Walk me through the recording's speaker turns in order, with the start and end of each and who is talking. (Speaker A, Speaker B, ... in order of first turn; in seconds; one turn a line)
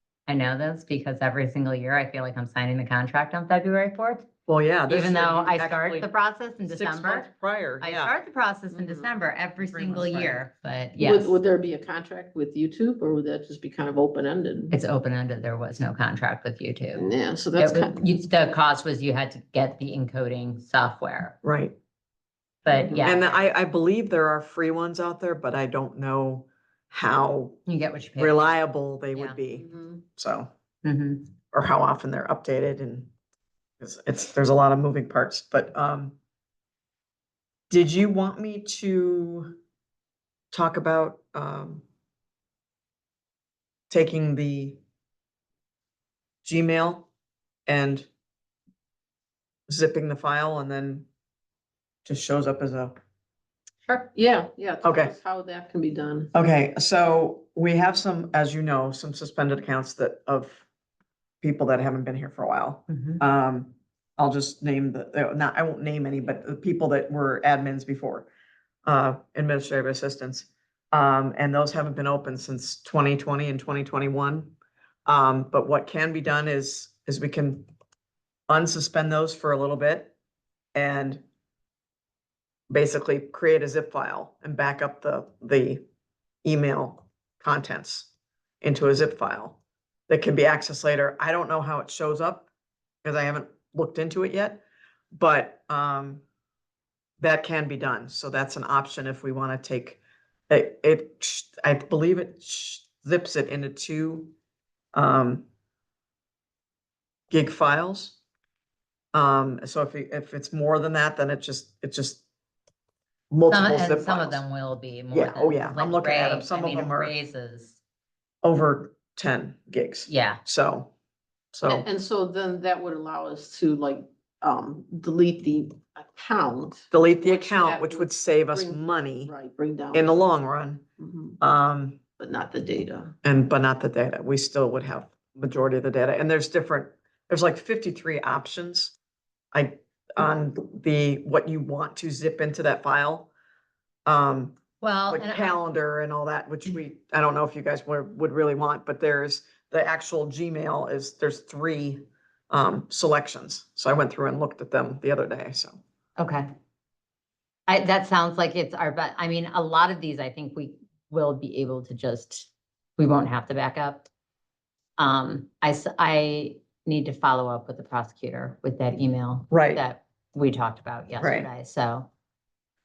Speaker A: 0.3-4.3
Speaker B: 4.5-6.1
Speaker A: 4.9-7.3
Speaker B: 6.7-8.1
Speaker A: 7.8-11.4
Speaker C: 8.7-9.1
Speaker B: 9.6-10.4
Speaker C: 11.0-14.7
Speaker A: 14.7-21.4
Speaker C: 16.9-18.2
Speaker B: 21.4-21.8
Speaker A: 22.6-23.3
Speaker B: 22.9-27.6
Speaker A: 27.7-28.5
Speaker B: 28.2-30.5
Speaker C: 29.5-30.0
Speaker A: 30.8-31.3
Speaker B: 31.5-33.1
Speaker B: 33.8-36.1
Speaker B: 37.7-39.6
Speaker B: 40.5-41.8
Speaker B: 43.9-44.8
Speaker B: 46.4-47.1
Speaker B: 47.7-48.1
Speaker B: 49.7-51.1
Speaker B: 52.0-52.9
Speaker C: 53.9-56.3
Speaker B: 54.8-55.1
Speaker B: 56.3-60.6
Speaker B: 61.4-68.3
Speaker A: 62.9-63.2
Speaker B: 68.8-74.5
Speaker B: 75.0-77.7
Speaker B: 78.5-80.1
Speaker B: 80.7-81.2
Speaker B: 82.7-85.8
Speaker B: 86.4-88.1
Speaker B: 88.6-92.5
Speaker B: 93.0-96.2
Speaker B: 97.2-104.3
Speaker B: 104.9-105.4
Speaker B: 107.3-108.2
Speaker B: 109.1-112.2
Speaker B: 113.3-114.4
Speaker A: 113.5-117.8
Speaker B: 115.1-117.1
Speaker B: 118.4-120.9
Speaker A: 120.1-120.4
Speaker B: 121.5-121.9
Speaker C: 121.7-130.2
Speaker B: 126.9-129.3
Speaker B: 129.9-130.8
Speaker C: 131.0-131.4
Speaker B: 131.4-132.0
Speaker C: 132.2-133.1
Speaker B: 133.2-138.9
Speaker B: 139.5-143.3
Speaker B: 144.1-144.6
Speaker A: 144.8-145.6
Speaker B: 145.1-155.8
Speaker A: 156.2-156.5
Speaker A: 157.7-164.1
Speaker A: 165.0-172.1
Speaker B: 169.5-169.8
Speaker B: 171.2-171.5